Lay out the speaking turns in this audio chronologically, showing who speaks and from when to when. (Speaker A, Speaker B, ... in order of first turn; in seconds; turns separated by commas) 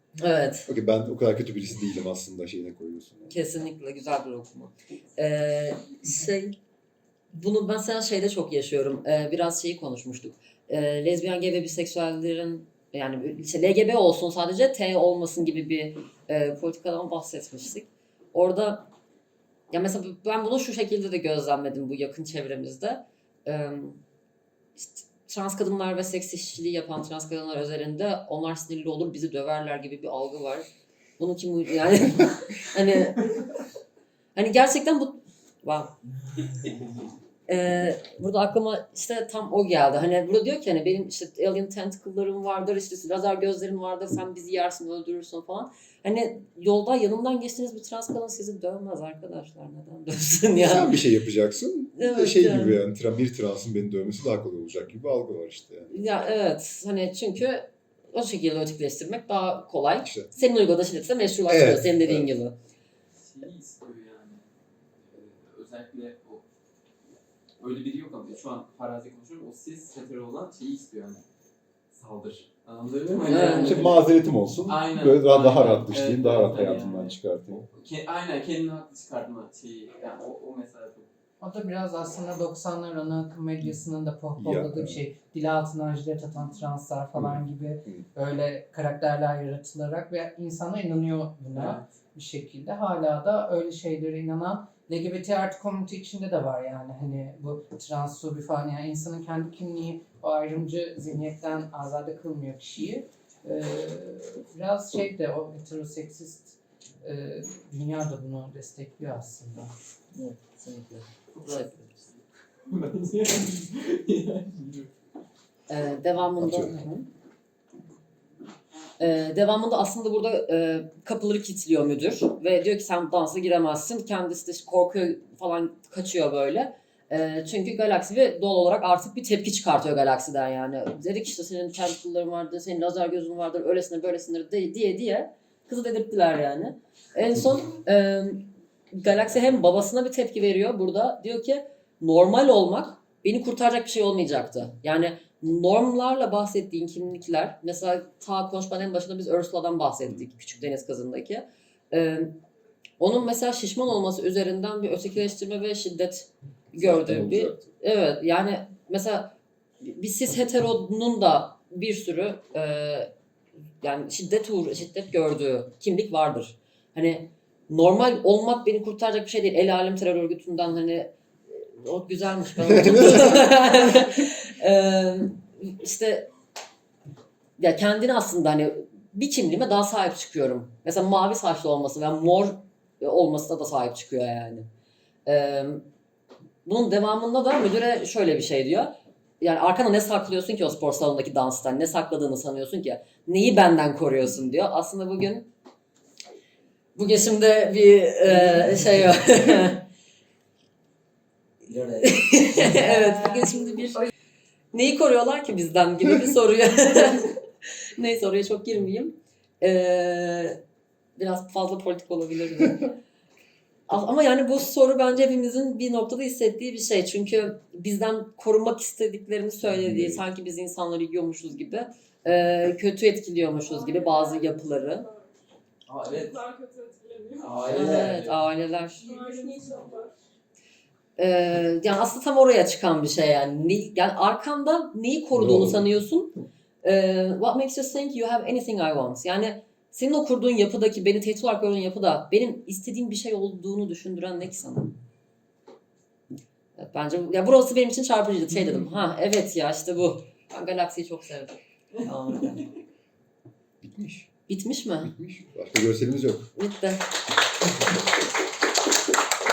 Speaker A: 0.2-0.7, Speaker B: 0.7-3.4, Speaker A: 3.3-6.5, Speaker A: 7.3-18.9, Speaker A: 19.7-24.0, Speaker A: 24.8-30.7, Speaker A: 31.2-33.4, Speaker A: 34.4-35.9, Speaker A: 37.5-51.0, Speaker B: 50.6-55.9, Speaker A: 52.0-52.8, Speaker A: 55.9-62.5, Speaker B: 60.0-60.3, Speaker B: 61.5-62.3, Speaker C: 63.2-64.5, Speaker C: 65.0-66.5, Speaker C: 67.6-71.2, Speaker C: 71.9-74.1, Speaker A: 73.3-73.8, Speaker B: 73.3-77.7, Speaker C: 74.7-77.2, Speaker C: 77.7-81.1, Speaker D: 81.4-109.7, Speaker B: 84.4-85.0, Speaker B: 87.2-88.1, Speaker C: 91.5-91.9, Speaker A: 110.1-111.9, Speaker C: 111.3-114.9, Speaker A: 115.7-117.1, Speaker B: 116.4-116.7, Speaker A: 119.0-152.4, Speaker A: 153.0-163.1, Speaker B: 156.7-157.7, Speaker A: 163.8-176.3, Speaker B: 172.6-173.5, Speaker A: 177.6-184.7, Speaker A: 185.3-185.9, Speaker A: 186.7-195.5, Speaker A: 196.9-199.9, Speaker A: 201.7-204.1, Speaker A: 204.7-207.3, Speaker A: 208.0-210.6, Speaker A: 211.2-212.9, Speaker A: 213.9-225.1, Speaker B: 219.6-220.2, Speaker E: 223.6-225.4, Speaker C: 225.9-226.4, Speaker E: 226.1-227.8, Speaker C: 227.4-229.6, Speaker A: 227.7-229.0, Speaker E: 229.0-230.2, Speaker A: 231.2-244.9, Speaker B: 235.3-235.9, Speaker A: 246.8-252.7, Speaker B: 253.8-254.3, Speaker A: 254.5-255.1, Speaker B: 255.0-256.5, Speaker A: 256.6-257.1